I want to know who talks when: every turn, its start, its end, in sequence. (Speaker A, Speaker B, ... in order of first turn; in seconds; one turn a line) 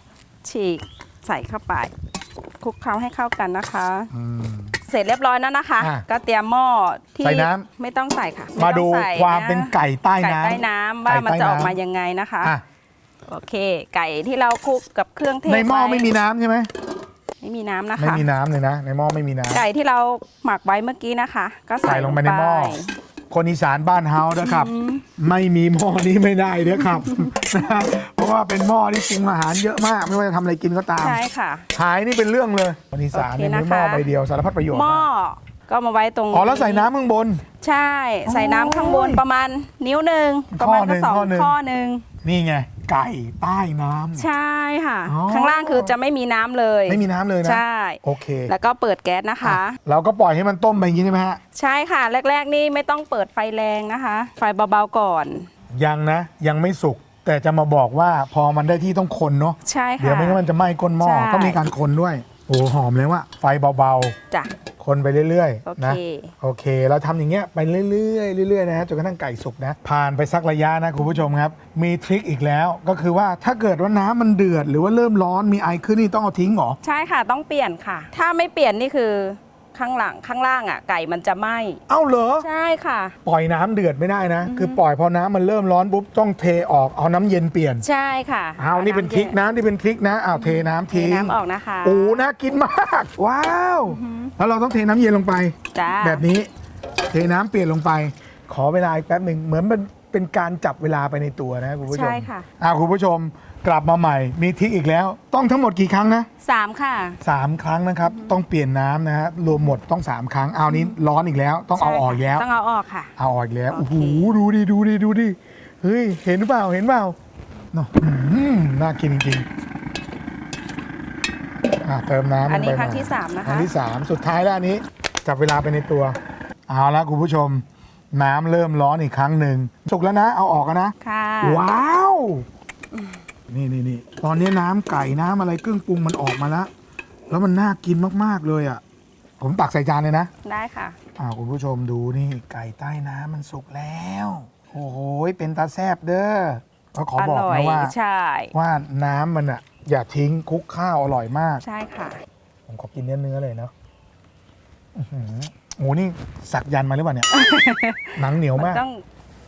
Speaker A: 0.4-1.9
Speaker A: 2.6-4.1
Speaker B: 4.1-4.8
Speaker A: 4.8-12.5
Speaker B: 5.8-6.0
Speaker B: 7.2-7.7
Speaker B: 8.6-11.7
Speaker A: 13.3-16.1
Speaker B: 15.4-16.7
Speaker A: 17.4-18.2
Speaker B: 18.0-19.6
Speaker A: 19.5-22.9
Speaker B: 21.8-22.8
Speaker B: 23.3-31.2
Speaker A: 24.4-25.1
Speaker A: 31.0-31.6
Speaker B: 31.7-35.0
Speaker A: 33.1-34.0
Speaker A: 34.7-36.9
Speaker B: 36.3-37.4
Speaker A: 37.6-42.0
Speaker B: 38.2-39.2
Speaker B: 40.5-41.5
Speaker B: 42.2-44.3
Speaker A: 44.2-49.8
Speaker B: 45.1-45.9
Speaker B: 46.9-48.5
Speaker B: 49.4-51.4
Speaker A: 51.5-55.5
Speaker B: 55.8-64.2
Speaker A: 59.6-60.4
Speaker A: 61.0-61.6
Speaker B: 64.8-76.8
Speaker A: 65.6-66.3
Speaker A: 76.8-81.8
Speaker B: 81.9-82.5
Speaker A: 82.4-83.1
Speaker B: 83.2-87.8
Speaker A: 84.4-84.8
Speaker A: 87.8-89.4
Speaker B: 88.6-96.5
Speaker A: 90.3-92.2
Speaker A: 93.9-94.3
Speaker A: 95.7-96.2
Speaker B: 97.1-106.3
Speaker A: 101.9-102.5
Speaker A: 106.4-107.2
Speaker B: 107.2-112.5
Speaker A: 111.8-113.1
Speaker B: 113.2-117.2
Speaker A: 113.7-114.3
Speaker B: 117.7-119.5
Speaker B: 121.8-126.2
Speaker A: 122.5-123.7
Speaker B: 126.7-132.4
Speaker A: 131.0-131.6
Speaker B: 133.5-136.7
Speaker B: 137.3-138.8
Speaker B: 139.4-140.3
Speaker A: 140.4-141.0
Speaker B: 141.2-147.9
Speaker A: 147.2-148.5
Speaker B: 148.5-151.6
Speaker A: 151.6-152.2
Speaker B: 152.7-153.7
Speaker B: 154.9-157.3
Speaker A: 157.3-159.0
Speaker B: 158.2-158.8